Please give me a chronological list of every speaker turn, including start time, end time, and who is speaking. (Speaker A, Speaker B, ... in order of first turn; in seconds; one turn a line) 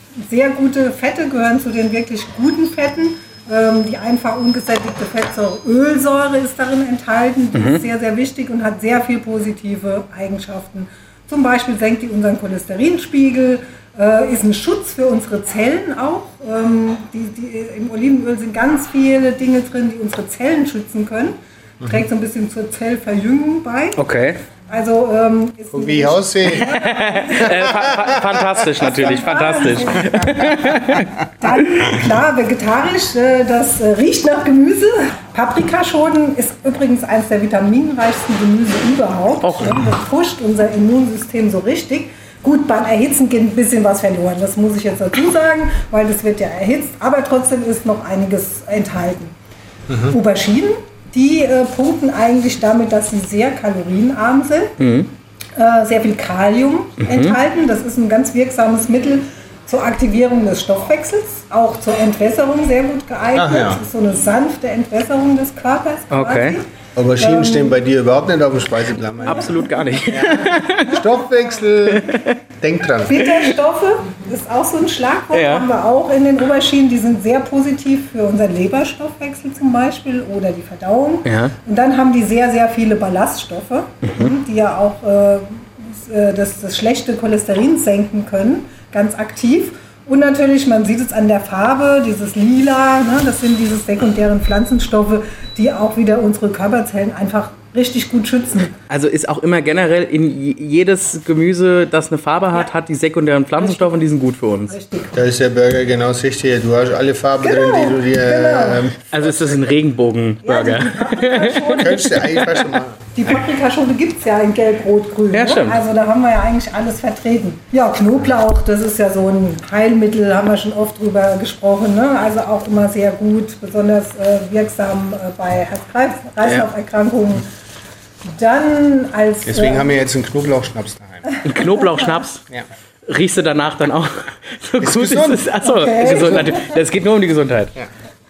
Speaker A: 0.2-24.0
Speaker B: 7.5-7.8
Speaker C: 21.8-22.1
Speaker B: 24.0-24.4
Speaker A: 24.7-49.3
Speaker C: 25.7-26.7
Speaker B: 26.6-31.1
Speaker C: 27.4-28.9
Speaker B: 39.4-39.8
Speaker C: 49.9-50.2
Speaker A: 50.1-54.9
Speaker B: 54.8-55.1
Speaker A: 55.5-67.8
Speaker B: 57.0-57.4
Speaker C: 63.3-63.8
Speaker B: 66.1-66.6
Speaker C: 67.0-73.2
Speaker B: 69.2-71.0
Speaker A: 69.3-69.6
Speaker A: 70.9-71.6
Speaker B: 71.8-72.4
Speaker A: 73.0-98.7
Speaker B: 73.2-73.5
Speaker B: 75.3-75.7
Speaker B: 81.2-81.5
Speaker B: 84.0-84.3
Speaker B: 98.9-104.7
Speaker A: 103.6-104.1
Speaker A: 104.7-105.2
Speaker C: 105.1-109.7
Speaker A: 107.4-108.9
Speaker B: 109.1-111.8
Speaker A: 110.4-112.5
Speaker C: 111.7-113.1
Speaker A: 113.1-127.5
Speaker B: 115.3-115.8
Speaker A: 128.2-129.9
Speaker C: 129.4-131.3
Speaker A: 131.3-132.1
Speaker B: 131.4-132.5
Speaker B: 133.1-137.8
Speaker C: 134.8-136.6
Speaker A: 135.6-136.8